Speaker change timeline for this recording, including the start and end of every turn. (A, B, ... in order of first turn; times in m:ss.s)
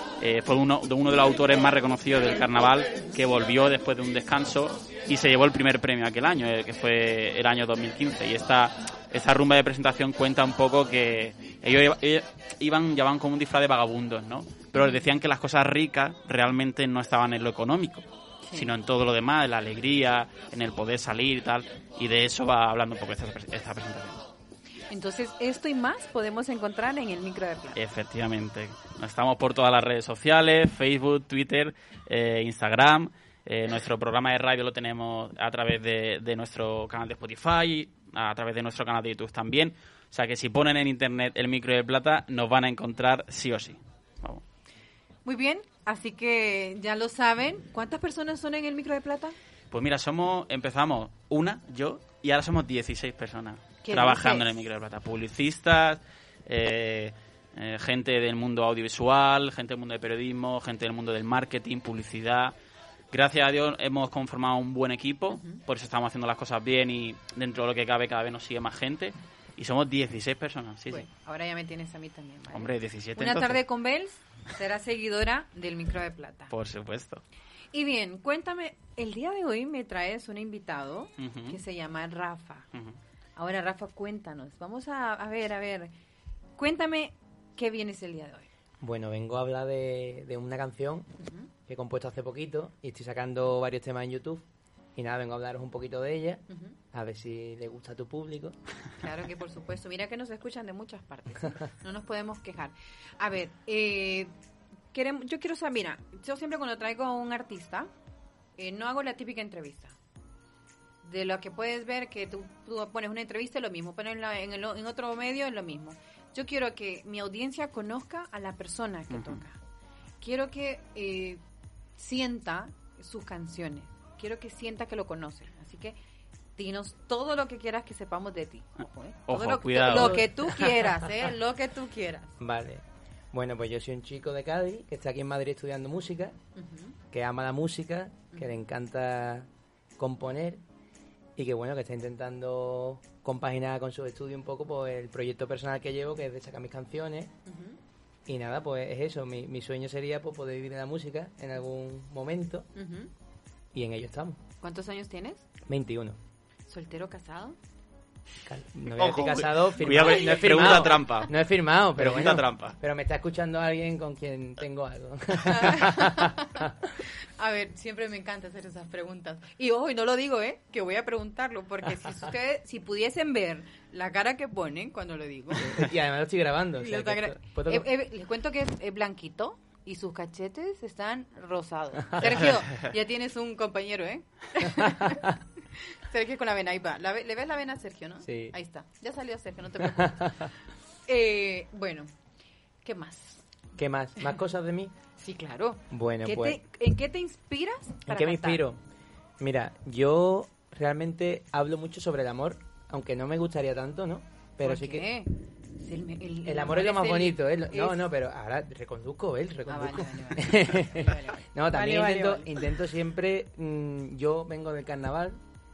0:00.2-0:24.2 A
0:14.8-0:15.0 B
0:18.4-0:18.7 B
0:24.9-0:27.8 B
0:27.8-0:44.4 A
0:45.2-0:49.4 B
0:49.7-1:02.5 A
0:53.8-0:54.5 B
1:03.1-1:11.1 A
1:05.3-1:05.6 B
1:10.9-1:16.5 B
1:12.5-1:13.6 A
1:16.5-1:17.2 A
1:17.7-1:22.7 B
1:21.2-1:21.6 A
1:23.4-1:25.9 B
1:26.6-1:28.5 B
1:28.8-1:31.1 C
1:31.2-1:31.5 B
1:31.7-1:38.6 C
1:36.5-1:36.8 B
1:39.0-1:44.3 B
1:44.9-1:47.9 B
1:48.6-1:50.0 B
1:51.0-1:59.6 B
1:59.1-1:59.4 A
2:00.2-2:01.4 B
2:02.0-2:06.0 B
2:06.6-2:12.4 B
2:09.3-2:10.7 A
2:09.9-2:10.3 C
2:12.4-2:16.4 C
2:16.6-2:17.0 B
2:17.1-2:20.6 C
2:21.4-2:27.3 C
2:27.5-2:27.8 B
2:28.3-2:32.7 C
2:32.8-2:33.1 B
2:33.7-2:34.4 C
2:34.6-2:35.5 B
2:35.6-2:36.2 C
2:36.7-2:37.6 B
2:38.5-2:46.7 C
2:38.9-2:41.3 A
2:39.9-2:40.9 B
2:42.0-2:42.8 A
2:45.4-2:55.9 B
2:55.6-2:57.9 C
2:56.8-3:10.5 B
3:08.2-3:08.6 C
3:10.0-3:10.5 C
3:11.1-3:12.1 B
3:12.8-3:13.4 B
3:13.8-3:14.9 C
3:15.2-3:18.6 B
3:15.9-3:16.6 C
3:18.1-3:18.8 C
3:19.4-3:25.1 C
3:24.6-3:28.0 B
3:26.4-3:35.4 C
3:29.7-3:32.6 B